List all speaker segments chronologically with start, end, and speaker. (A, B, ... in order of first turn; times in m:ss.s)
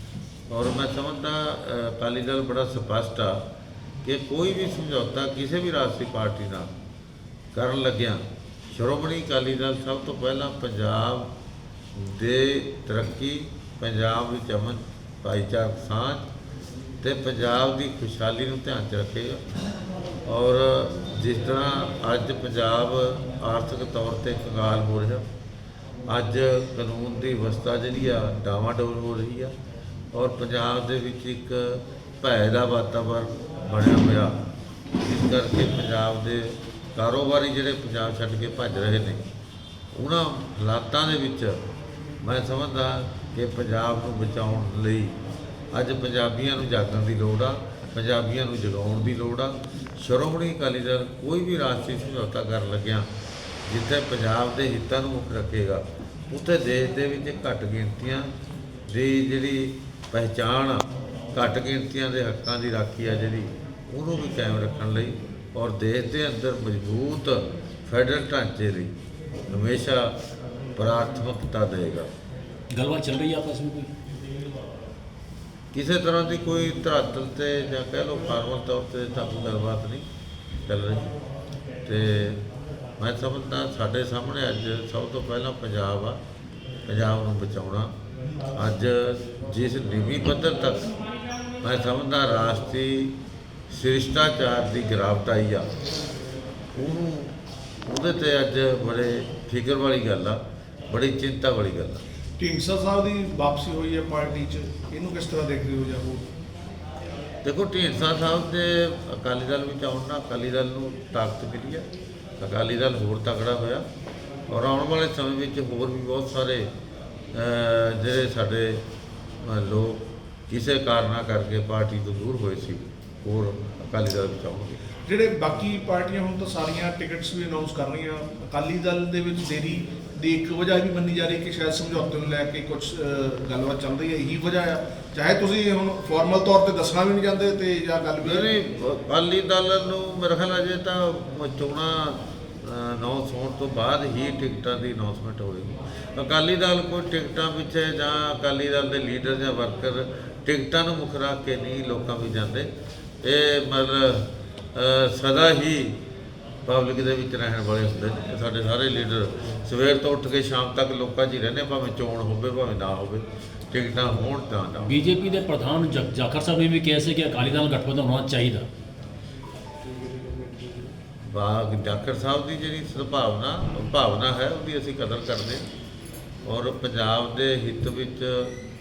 0:00.5-0:03.4 A
0:04.0-0:06.7 A
0:07.5-0:11.3 A
0:12.0-0:16.2 A
0:17.0-0:19.4 A
0:20.3-0:25.2 A
0:26.1-0:29.5 A
0:30.1-0:34.4 A
0:35.0-0:39.3 A
0:39.9-0:41.6 A
0:42.2-0:45.2 A
0:45.7-0:53.1 A
0:53.7-0:58.3 A
0:58.9-1:08.9 A
1:09.5-1:10.2 A
1:10.8-1:12.1 A
1:12.7-1:13.9 B
1:15.7-1:20.1 A
1:20.6-1:21.1 A
1:21.8-1:22.4 A
1:23.0-1:26.2 A
1:26.9-1:27.9 A
1:28.5-1:30.8 A
1:31.6-1:33.1 A
1:33.7-1:35.7 A
1:36.7-1:42.0 A
1:42.4-1:46.3 C
1:47.4-1:51.9 A
1:52.4-1:53.8 A
1:54.5-1:56.7 A
1:57.3-1:58.8 A
1:59.4-2:04.8 A
2:05.1-2:18.5 C
2:18.2-2:32.7 A
2:33.2-2:36.0 A
2:36.7-2:44.9 A
2:44.9-2:48.7 B
2:51.3-2:55.7 A
2:56.4-2:58.5 A